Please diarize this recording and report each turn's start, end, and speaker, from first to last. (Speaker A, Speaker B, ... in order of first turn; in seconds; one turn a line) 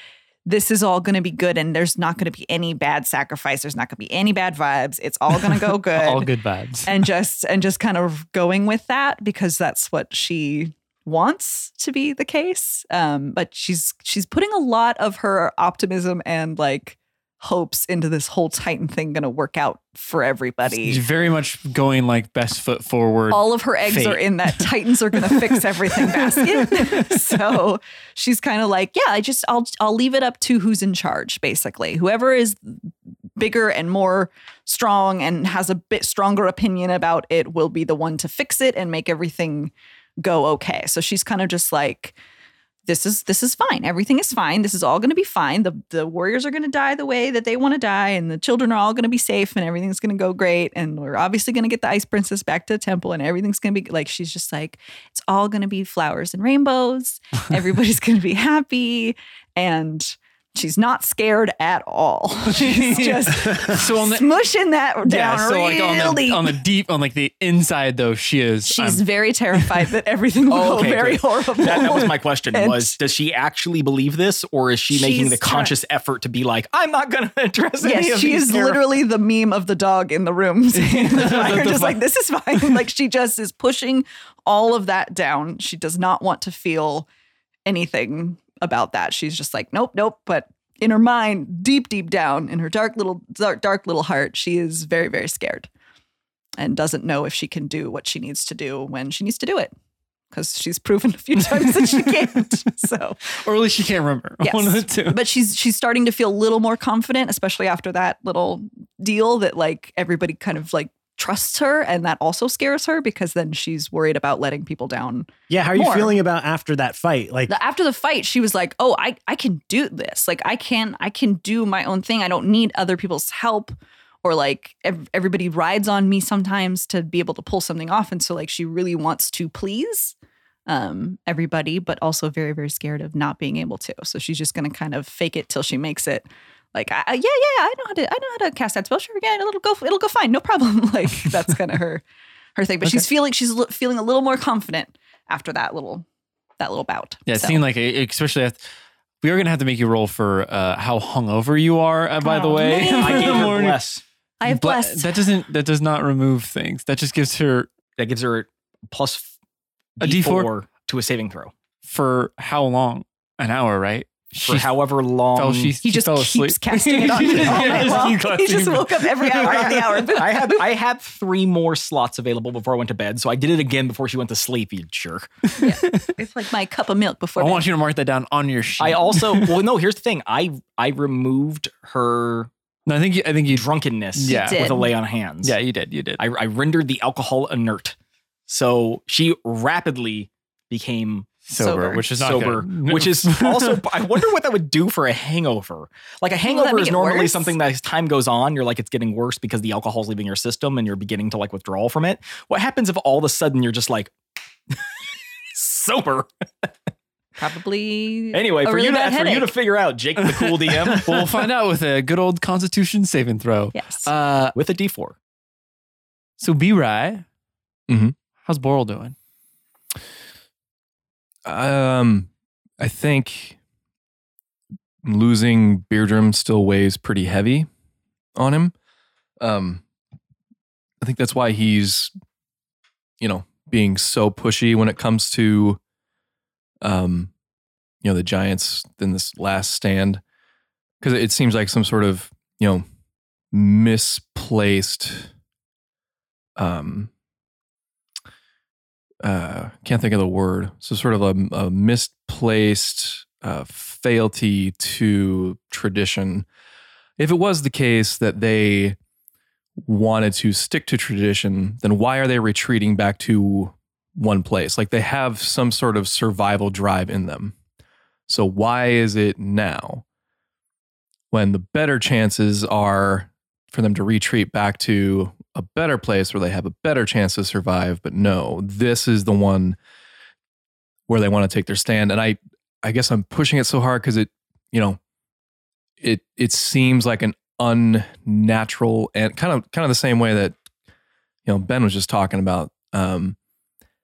Speaker A: 0.5-6.3
Speaker B: 5.4-7.0
Speaker A: 6.8-21.0
Speaker B: 20.7-27.4
Speaker A: 23.3-42.1
Speaker A: 42.9-66.6
Speaker B: 62.5-64.3
Speaker B: 65.0-69.0
Speaker A: 68.6-73.0
Speaker C: 70.5-78.8
Speaker A: 74.9-75.7
Speaker A: 77.8-87.1
Speaker B: 80.7-82.0
Speaker A: 87.7-95.7
Speaker A: 96.6-99.7
Speaker A: 100.3-103.3
Speaker B: 101.6-102.2
Speaker B: 103.3-105.2
Speaker A: 104.4-116.2
Speaker D: 115.5-117.5
Speaker A: 117.5-130.1
Speaker A: 130.7-142.0
Speaker A: 142.6-146.1
Speaker A: 146.6-147.6
Speaker B: 147.2-148.6
Speaker B: 149.2-153.8
Speaker A: 152.2-153.6
Speaker C: 152.9-154.0
Speaker A: 154.4-155.2
Speaker B: 154.4-157.7
Speaker C: 158.0-159.3
Speaker C: 160.0-161.5
Speaker B: 160.0-160.5
Speaker B: 161.8-164.7
Speaker C: 164.4-165.7
Speaker B: 165.3-170.1
Speaker A: 165.8-170.6
Speaker C: 167.1-168.2
Speaker C: 169.4-175.3
Speaker B: 175.4-176.1
Speaker A: 175.6-177.7
Speaker B: 177.4-179.6
Speaker C: 178.8-182.5
Speaker B: 182.9-184.9
Speaker C: 183.5-185.6
Speaker A: 184.2-184.8
Speaker B: 185.4-186.2
Speaker C: 186.2-187.9
Speaker C: 188.5-191.4
Speaker B: 191.4-193.8
Speaker A: 191.5-192.0
Speaker C: 192.1-204.1
Speaker A: 196.4-197.5
Speaker C: 205.5-206.7
Speaker A: 207.4-209.5
Speaker C: 208.3-211.3
Speaker B: 210.7-214.5
Speaker A: 213.7-214.1
Speaker C: 214.5-215.1
Speaker B: 216.4-217.2
Speaker E: 217.9-218.1
Speaker B: 218.4-219.1
Speaker E: 221.4-222.3
Speaker E: 222.8-223.6
Speaker E: 225.0-227.7
Speaker E: 228.3-228.7
Speaker E: 229.4-229.8
Speaker E: 231.0-232.1
Speaker E: 233.2-235.8
Speaker E: 236.8-237.3
Speaker E: 238.0-240.2
Speaker E: 241.0-242.8
Speaker E: 243.5-245.3
Speaker E: 246.6-247.1
Speaker E: 249.2-256.5
Speaker E: 257.2-259.0
Speaker E: 259.8-267.5
Speaker E: 268.3-270.0
Speaker E: 271.3-279.8
Speaker E: 281.1-285.0
Speaker E: 286.0-290.6
Speaker E: 291.4-293.4